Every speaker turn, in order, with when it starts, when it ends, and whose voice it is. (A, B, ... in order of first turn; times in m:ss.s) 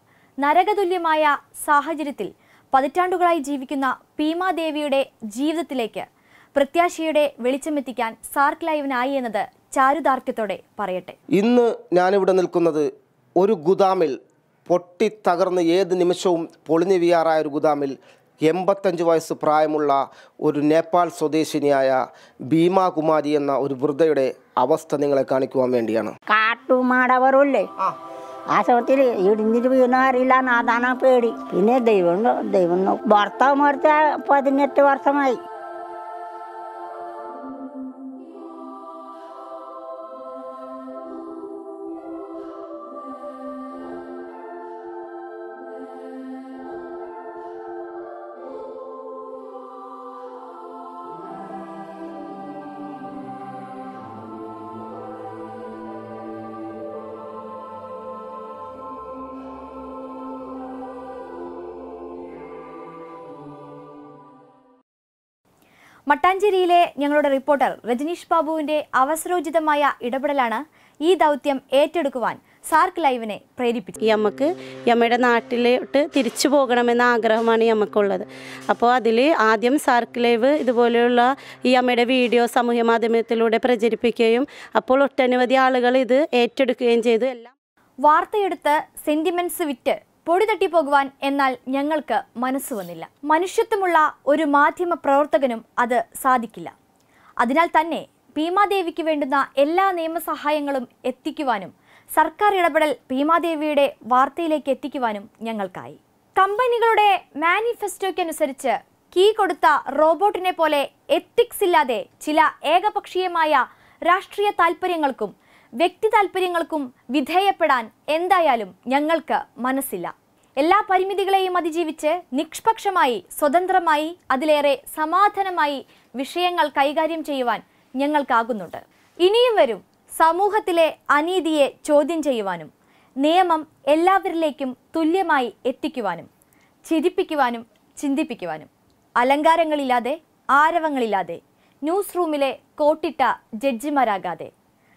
0:00.4-0:11.2 A
0:11.4-0:12.9 B
0:13.4-0:14.2 B
0:14.7-0:17.9 B
0:18.4-0:22.0 B
0:22.5-0:26.1 B
0:26.3-0:27.6 C
0:28.5-0:35.4 C
1:06.1-1:14.0 A
1:14.1-1:27.5 D
1:28.0-1:36.7 A
1:37.4-2:12.7 A
2:13.2-2:16.3 A
2:16.9-2:24.5 A